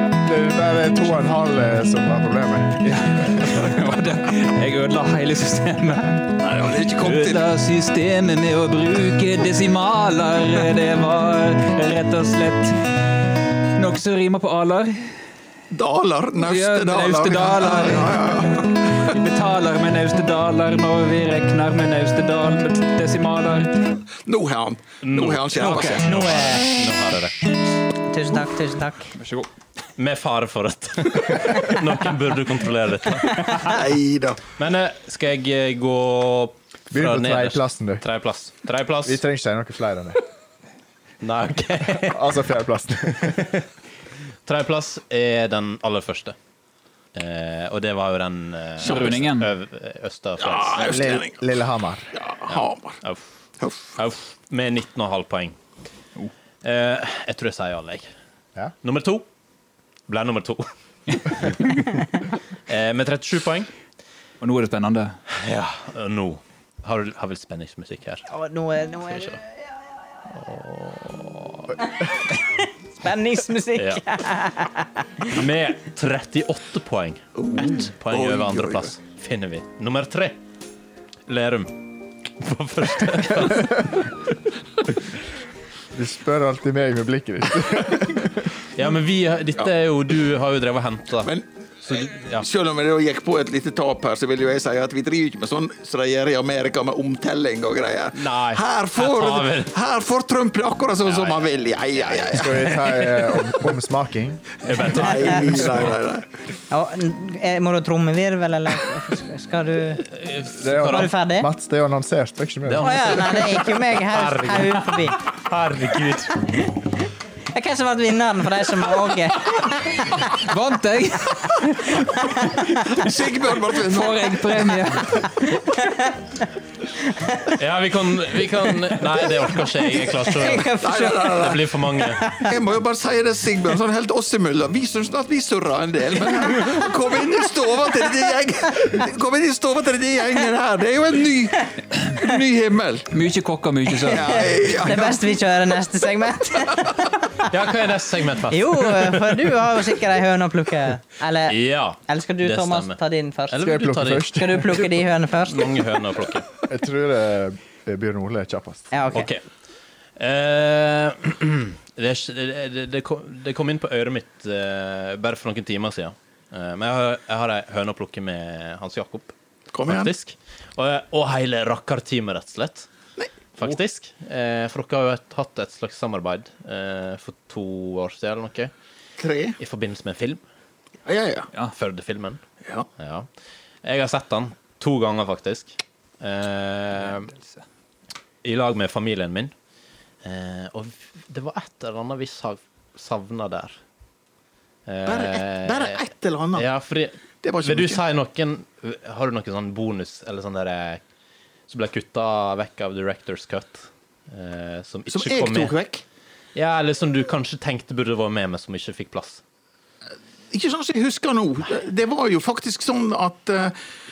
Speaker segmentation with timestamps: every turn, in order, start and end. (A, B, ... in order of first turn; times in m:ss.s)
0:00.2-0:02.8 A
0:02.8-0:06.3 B
0:06.4-0:07.4 C
0:06.9-0:12.9 B
0:13.8-0:15.2 B
0:15.7-0:19.2 C
0:16.4-0:23.9 B
0:24.1-0:26.3 C
0:25.0-0:27.4 D
0:25.6-0:26.0 B
0:26.0-0:26.7 E
0:28.1-0:29.1 E
0:29.1-0:29.5 B
0:30.0-0:33.4 D
0:33.2-0:33.7 E
0:33.6-0:34.4 C
0:34.6-0:39.2 D
0:36.9-0:38.0 A
0:39.0-0:40.2 A
0:41.2-0:42.4 D
0:42.0-0:43.5 A
0:43.2-0:43.6 D
0:44.4-0:46.4 D
0:47.1-0:51.0 D
0:48.8-0:49.5 B
0:48.8-0:49.2 C
0:50.4-0:51.4 C
0:50.8-0:52.1 A
0:52.1-0:53.0 C
0:52.5-0:53.2 D
0:53.6-0:53.9 C
0:54.0-0:55.6 D
0:56.6-0:58.1 D
0:58.8-0:59.2 D
1:00.1-1:01.7 D
1:02.7-1:03.7 D
1:04.4-1:05.2 B
1:05.3-1:08.3 D
1:08.3-1:09.8 E
1:09.1-1:09.4 D
1:10.3-1:11.7 D
1:11.8-1:15.4 E
1:13.8-1:14.0 D
1:15.3-1:20.4 D
1:17.4-1:18.9 C
1:21.3-1:24.2 D
1:25.9-1:28.5 A
1:28.7-1:31.3 D
1:31.2-1:43.4 C
1:31.8-1:32.4 D
1:38.1-1:39.7 D
1:41.0-1:42.8 D
1:42.3-1:44.5 A
1:44.6-1:46.0 D
1:44.8-1:46.3 C
1:45.1-1:45.7 E
1:46.7-1:50.0 E
1:50.1-1:51.1 D
1:50.6-1:53.2 A
1:50.7-1:51.5 E
1:52.6-1:56.4 D
1:52.8-1:55.2 E
1:56.5-2:00.4 E
2:00.2-2:02.0 B
2:01.7-2:03.0 E
2:02.8-2:04.6 C
2:03.8-2:05.3 B
2:05.2-2:06.3 E
2:07.0-2:07.6 E
2:07.6-2:12.3 D
2:08.6-2:12.5 E
2:10.8-2:11.7 C
2:12.4-2:23.1 C
2:23.1-2:24.5 B
2:24.0-2:27.5 E
2:24.1-2:25.2 C
2:27.5-2:29.4 D
2:28.5-2:35.8 E
2:31.5-2:33.0 D
2:33.5-2:34.7 D
2:33.6-2:34.7 A
2:35.5-2:36.5 D
2:36.7-2:38.9 A
2:38.9-2:39.3 E
2:39.1-2:39.4 D
2:40.2-2:49.3 D
2:49.7-2:50.1 C
2:49.8-2:52.9 D
2:53.2-2:53.8 C
2:53.6-2:58.7 D
2:59.2-2:59.6 C
2:59.6-3:00.4 D
3:01.0-3:01.5 C
3:01.7-3:02.4 D
3:03.0-3:03.3 D
3:03.8-3:07.3 D
3:07.0-3:07.6 B
3:08.4-3:09.5 D
3:10.2-3:13.8 D
3:14.9-3:16.0 D
3:15.0-3:16.6 C
3:16.5-3:21.0 D
3:17.4-3:18.0 C
3:21.7-3:25.7 D
3:25.1-3:26.0 C
3:26.5-3:29.4 D
3:30.5-3:33.7 C